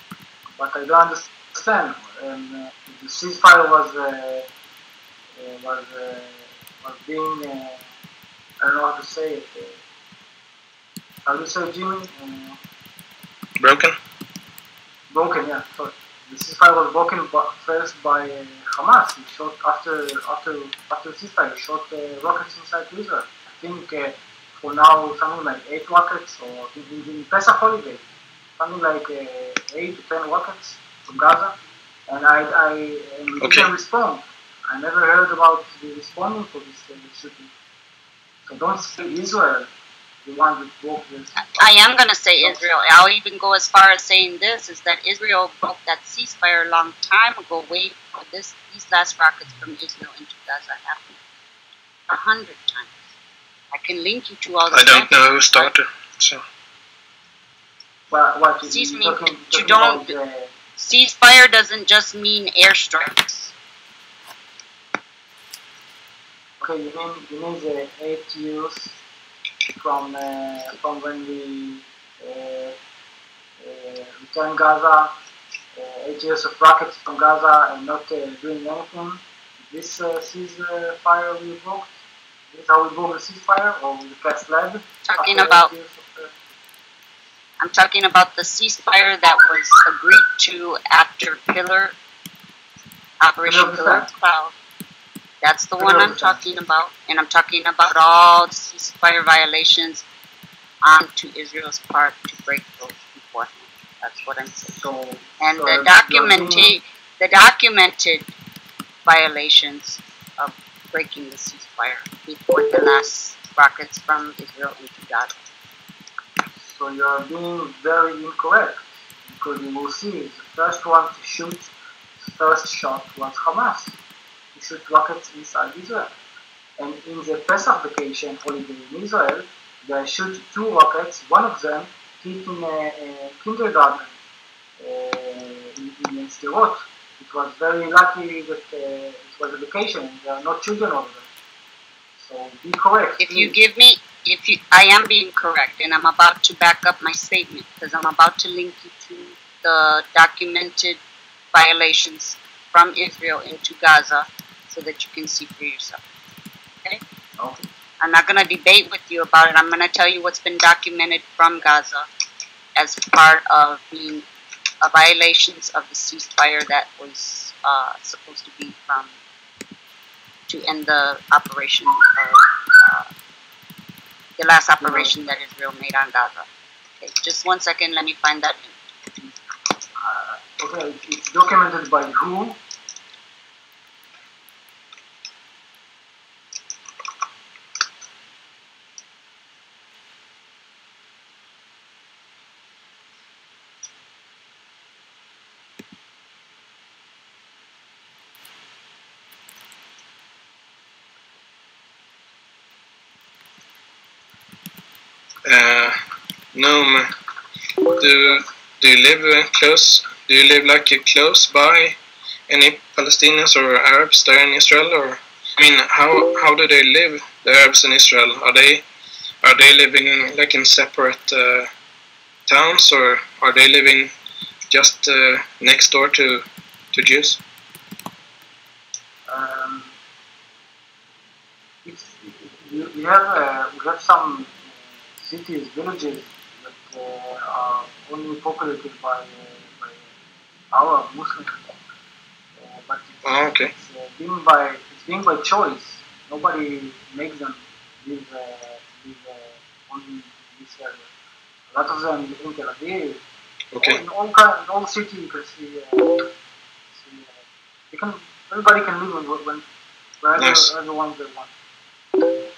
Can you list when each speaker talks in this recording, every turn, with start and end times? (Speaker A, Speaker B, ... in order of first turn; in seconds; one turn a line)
Speaker A: 0.6-4.5
Speaker A: 5.4-7.9
Speaker A: 8.6-9.8
Speaker A: 11.3-12.6
Speaker B: 13.6-14.0
Speaker A: 15.1-28.1
Speaker A: 28.6-37.5
Speaker B: 33.4-33.7
Speaker A: 38.5-39.7
Speaker A: 40.2-41.7
Speaker C: 41.5-51.2
Speaker C: 52.1-52.9
Speaker C: 53.7-55.7
Speaker B: 54.7-56.4
Speaker A: 58.1-60.5
Speaker C: 58.6-60.1
Speaker C: 60.8-63.5
Speaker A: 66.6-68.9
Speaker A: 69.8-72.8
Speaker A: 73.6-75.1
Speaker A: 75.7-81.9
Speaker A: 82.5-86.4
Speaker C: 85.0-85.7
Speaker C: 87.6-92.0
Speaker C: 93.2-94.5
Speaker A: 93.4-94.1
Speaker C: 95.4-100.0
Speaker A: 95.8-96.4
Speaker C: 100.8-104.8
Speaker A: 104.8-106.8
Speaker C: 105.4-108.3
Speaker C: 109.1-115.4
Speaker A: 116.6-121.7
Speaker A: 122.3-124.0
Speaker A: 124.5-126.1
Speaker A: 126.8-134.1
Speaker A: 134.8-141.3
Speaker A: 142.2-143.6
Speaker C: 143.2-151.0
Speaker C: 151.5-156.0
Speaker A: 157.4-157.7
Speaker C: 158.0-162.1
Speaker C: 162.8-164.2
Speaker C: 164.8-169.1
Speaker C: 170.5-173.1
Speaker C: 174.4-176.5
Speaker A: 174.8-175.2
Speaker C: 177.0-178.8
Speaker A: 180.0-182.6
Speaker B: 205.4-206.0
Speaker B: 206.5-207.1
Speaker B: 207.9-218.8
Speaker B: 219.4-221.7
Speaker B: 222.5-224.1
Speaker B: 224.7-227.4
Speaker A: 229.3-229.9
Speaker A: 231.8-240.1
Speaker A: 240.7-241.8
Speaker A: 242.6-251.1
Speaker B: 243.2-243.7
Speaker A: 251.7-253.2
Speaker B: 253.7-254.0
Speaker A: 253.8-256.3
Speaker A: 256.9-257.4
Speaker A: 257.9-259.6
Speaker A: 260.2-261.5
Speaker B: 260.4-260.7